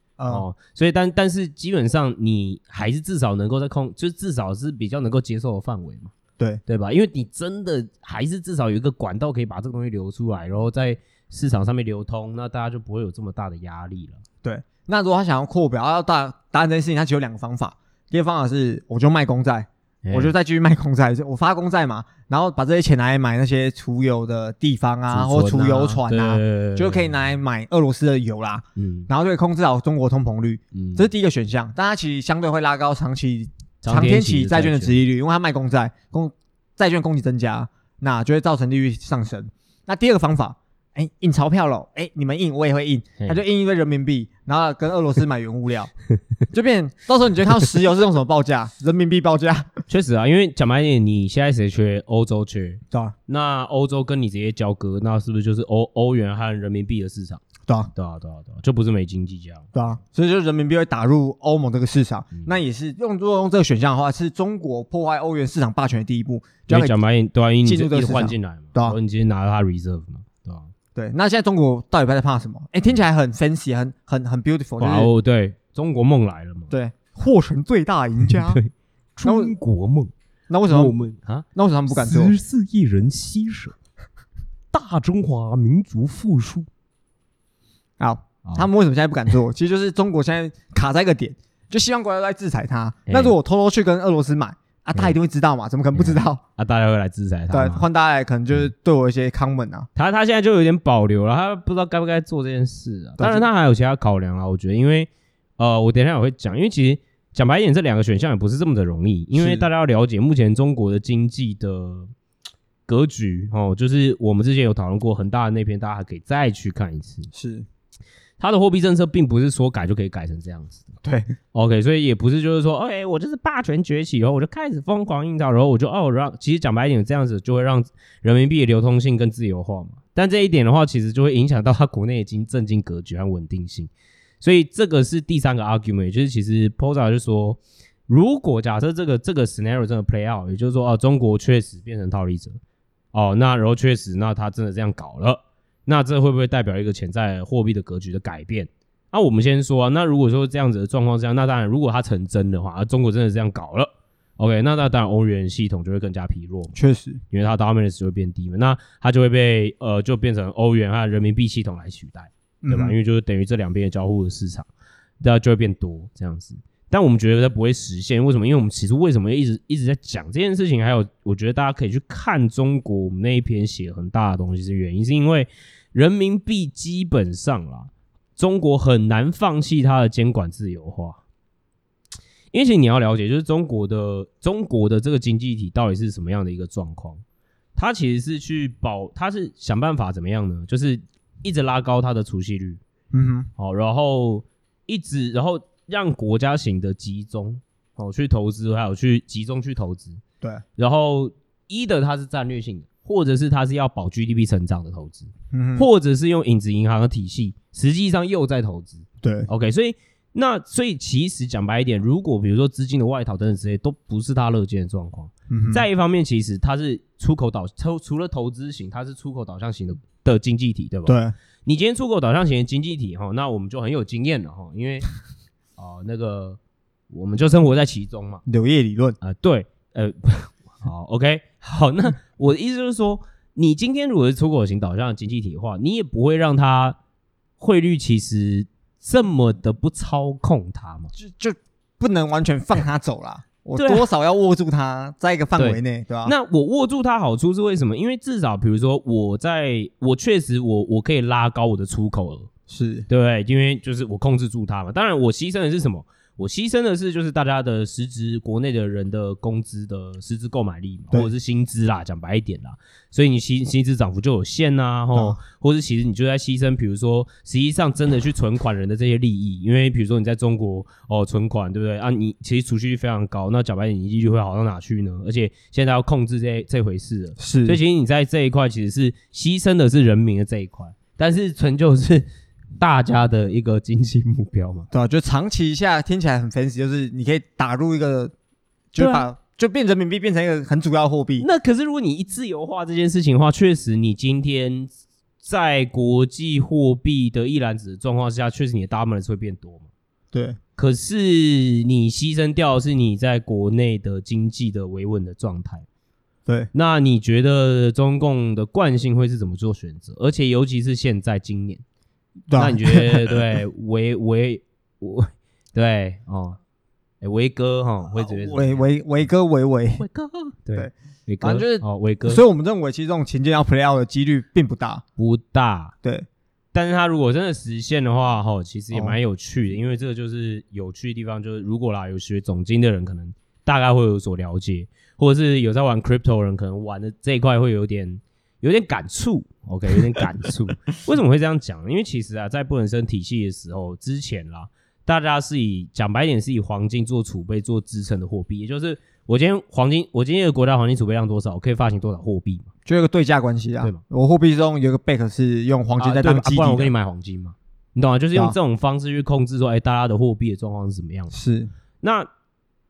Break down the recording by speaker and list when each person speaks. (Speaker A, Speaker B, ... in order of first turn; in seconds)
Speaker A: 0.2-0.5, 14.4-45.9, 46.5-49.8, 57.7-57.9, 59.8-67.0, 67.7-69.0, 71.0-75.1, 76.7-78.6, 79.2-79.5, 80.5-81.0, 81.5-82.3, 88.0-96.4, 97.5-99.9, 103.2-103.5, 109.3-109.7, 117.3-117.7, 121.0-121.3, 156.8-157.2, 162.6-163.0, 193.1-193.5, 205.5-205.9, 209.2-209.5, 215.5-215.8, 221.1-221.3, 228.5-229.2, 241.2-246.3, 252.7-253.1, 277.4-277.8, 284.9-288.3, 288.9-291.5, 300.3-300.6, 312.5-313.4, 318.2-320.0, 320.8-325.0, 352.9-356.9, 361.3-361.7
Speaker B: 0.3-6.1, 6.7-14.2, 20.1-20.3, 25.1-27.1, 28.8-29.1, 30.7-31.1, 33.8-35.0, 49.9-57.4, 58.0-59.7, 66.7-70.7, 74.8-76.7, 78.5-80.1, 80.7-83.8, 84.7-86.7, 93.1-93.3, 96.0-97.8, 100.0-112.1, 112.9-117.3, 118.4-120.9, 121.5-133.9, 134.4-142.6, 143.1-156.8, 157.3-164.7, 165.2-181.2, 182.5-187.2, 187.8-192.8, 193.6-200.2, 200.8-225.1, 225.8-226.6, 227.1-228.4, 229.2-237.0, 237.6-241.1, 243.8-244.1, 245.6-252.5, 253.1-282.3, 282.8-284.9, 289.0-289.2, 291.4-299.9, 300.8-305.9, 306.7-311.8, 312.5-316.6, 317.2-318.9, 320.0-322.4, 325.2-325.9, 326.7-352.7, 356.0-361.3, 362.0-362.3